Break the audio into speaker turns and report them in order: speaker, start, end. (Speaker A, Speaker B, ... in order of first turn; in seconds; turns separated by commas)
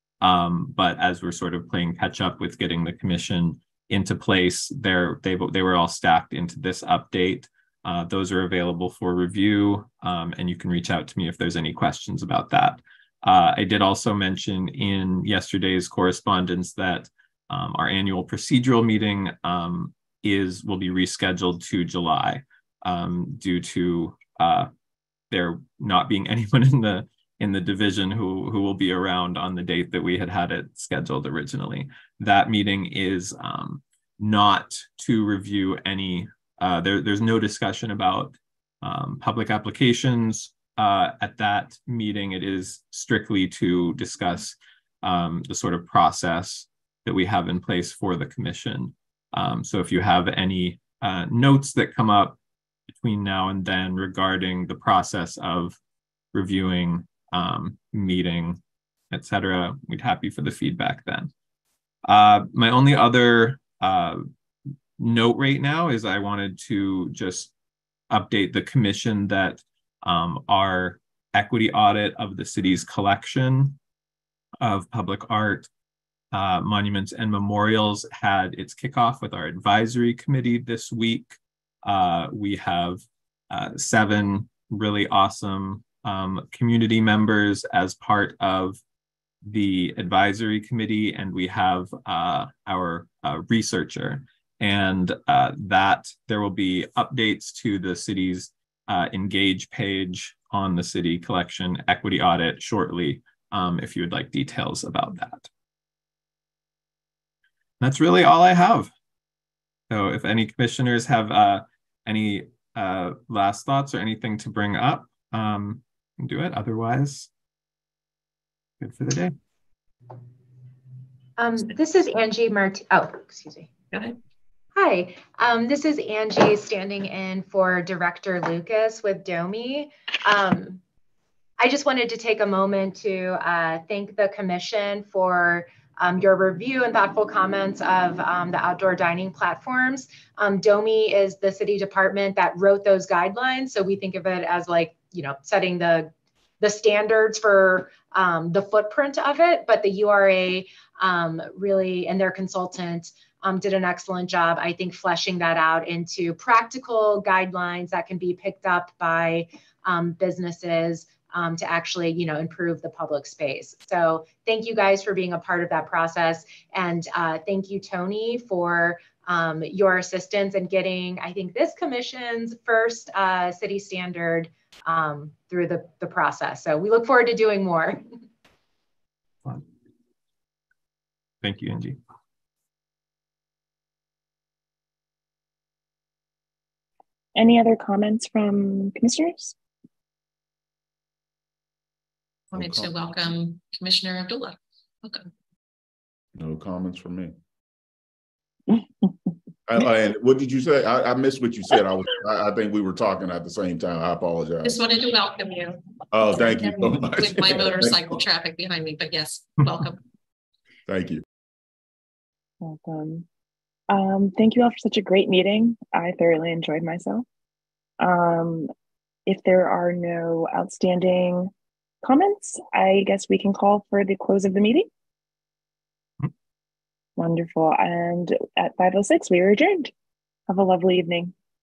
Speaker A: 0.2-24.7, Speaker A: 25.3-52.4, Speaker A: 52.9-55.8, Speaker A: 56.3-58.6, Speaker A: 59.1-61.3, Speaker A: 62.0-64.3, Speaker A: 65.0-67.5, Speaker A: 68.1-73.8, Speaker A: 74.6-75.7, Speaker A: 76.3-88.8, Speaker A: 89.5-105.5, Speaker A: 107.8-108.9, Speaker A: 109.9-117.3, Speaker A: 118.8-119.4, Speaker B: 121.4-123.8, Speaker C: 123.9-124.2, Speaker B: 124.7-130.8, Speaker B: 131.6-178.0, Speaker A: 181.4-182.0, Speaker D: 187.3-189.5, Speaker C: 192.5-195.3, Speaker E: 192.5-192.9, Speaker E: 196.4-197.3, Speaker E: 199.7-204.8, Speaker C: 204.6-210.0, Speaker E: 206.1-208.2, Speaker E: 210.9-211.2, Speaker D: 212.6-213.3, Speaker D: 213.9-217.3, Speaker D: 218.0-218.7, Speaker D: 219.3-221.5, Speaker D: 222.0-224.9, Speaker D: 227.2-229.9, Speaker D: 230.5-231.3